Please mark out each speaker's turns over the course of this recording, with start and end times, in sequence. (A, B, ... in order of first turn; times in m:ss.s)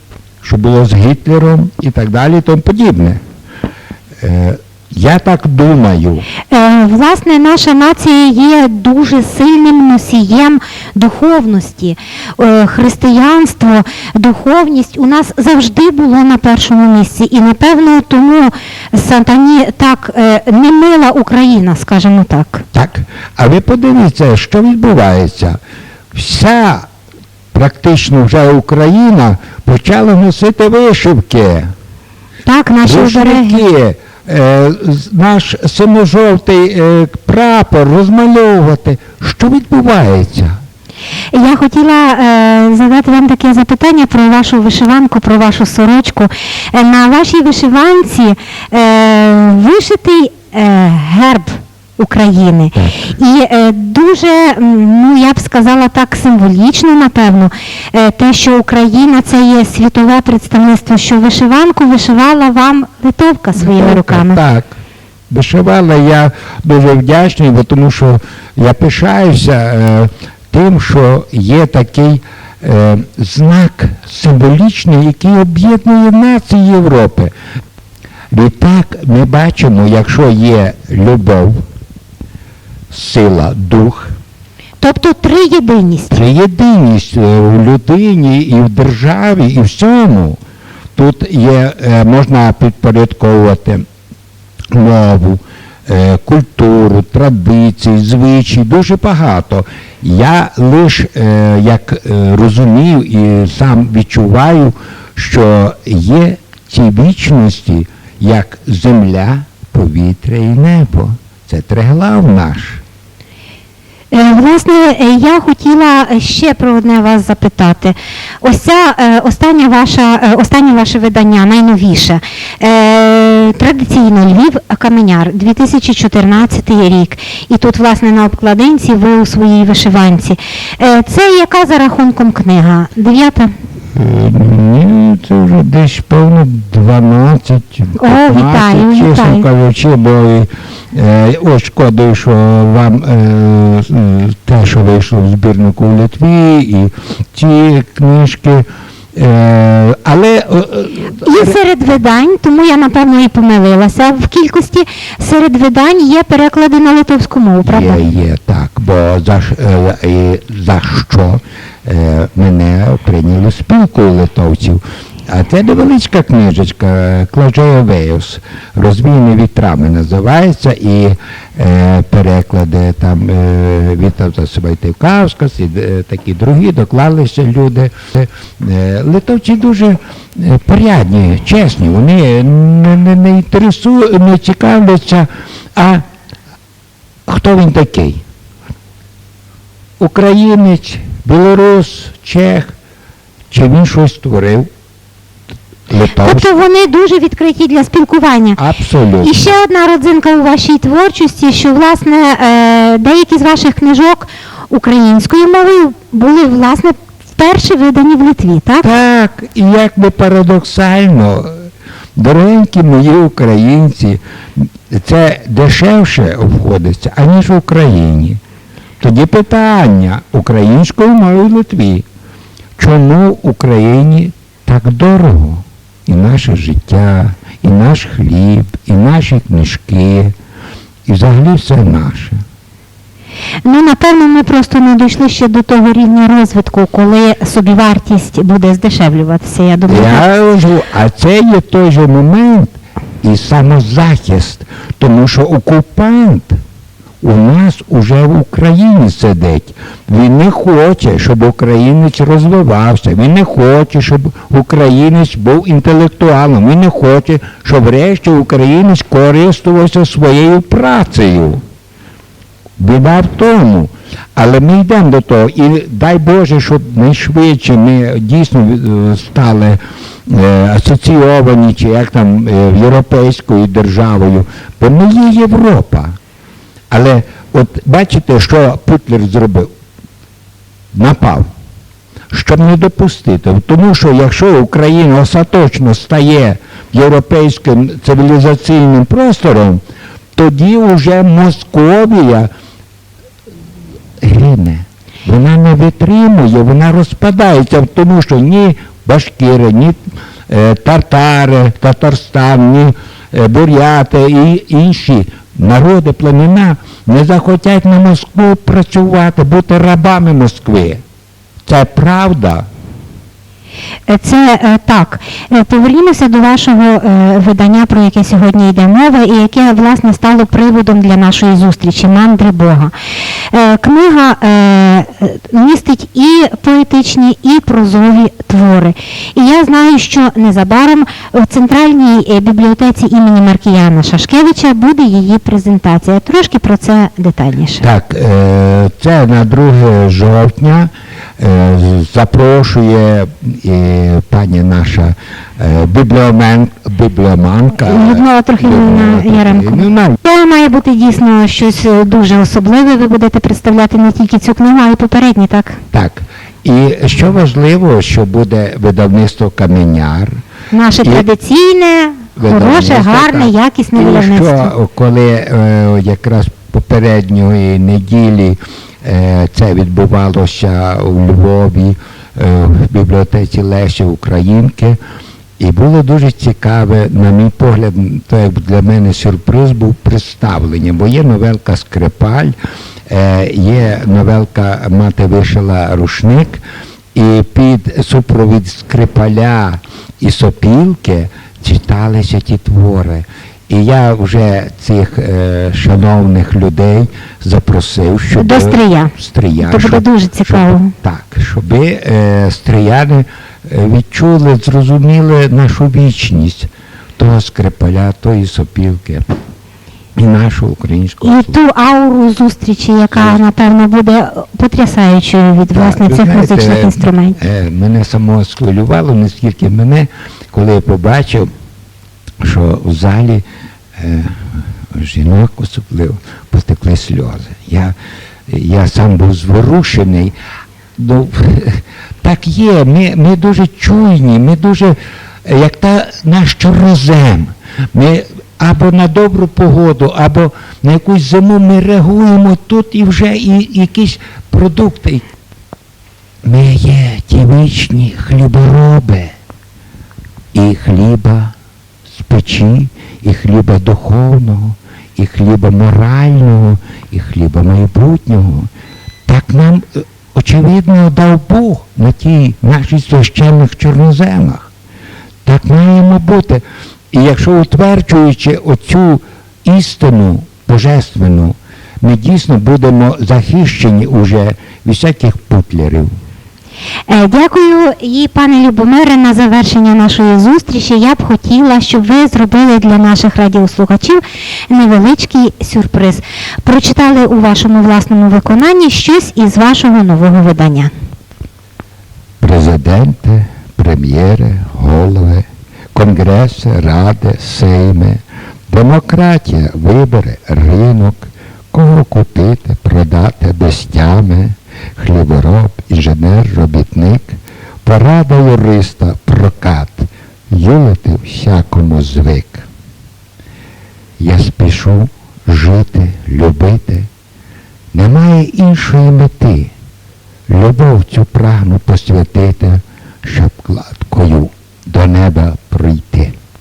0:00.4-0:03.2 A
0:04.2-0:06.3 A
0:06.5-0:22.6 B
0:22.7-0:25.6 A
0:26.1-0:26.9 A
0:27.5-0:31.7 A
0:32.4-0:33.6 B
0:32.8-0:40.6 A
0:41.3-1:04.4 B
0:52.7-0:53.1 A
1:03.6-1:04.8 A
1:05.3-1:17.3 A
1:18.3-1:21.6 A
1:22.9-1:24.2 A
1:24.8-1:26.2 B
1:26.1-1:30.4 A
1:31.0-1:33.8 A
1:34.7-1:52.8 A
1:54.1-2:13.5 B
2:13.9-2:31.6 A
2:18.0-2:19.4 B
2:31.2-2:38.0 B
2:37.6-3:06.0 A
3:07.3-3:08.2 A
3:10.0-3:12.7 A
3:13.5-3:14.7 A
3:15.9-3:16.5 A
3:16.1-3:18.6 B
3:18.6-3:19.4 A
3:19.2-3:28.9 B
3:28.8-3:38.4 A
3:39.0-3:42.0 A
3:42.8-3:50.3 A
3:51.0-3:52.4 A
3:53.6-4:00.2 B
3:59.8-4:06.6 A
4:07.2-4:21.6 A
4:22.8-4:36.2 A
4:36.9-4:39.7 A
4:40.9-4:41.5 A
4:42.3-4:49.8 A
4:50.3-4:52.5 A
4:54.2-5:11.0 A
5:11.6-5:12.7 A
5:14.1-5:22.9 B
5:23.5-5:37.8 B
5:37.8-5:50.2 A
5:47.8-5:55.8 B
5:55.9-6:00.4 A
6:00.7-6:04.7 B
6:01.0-6:01.3 A
6:02.4-6:15.0 A
6:15.6-6:22.6 A
6:23.1-6:26.6 A
6:27.1-6:49.3 A
6:38.3-6:40.9 B
6:50.2-6:51.6 A
6:51.2-6:57.4 B
6:53.1-6:53.4 A
6:55.7-7:01.5 A
7:02.4-7:03.4 A
7:04.0-7:07.9 A
7:08.5-7:10.3 A
7:11.0-7:25.2 A
7:26.4-7:29.3 A
7:30.5-7:31.5 A
7:32.1-7:38.7 A
7:39.2-7:44.7 A
7:45.4-7:56.1 A
7:57.1-8:10.9 B
8:12.4-8:32.7 A
8:34.2-8:37.1 A
8:37.9-8:39.7 A
8:40.5-8:46.3 A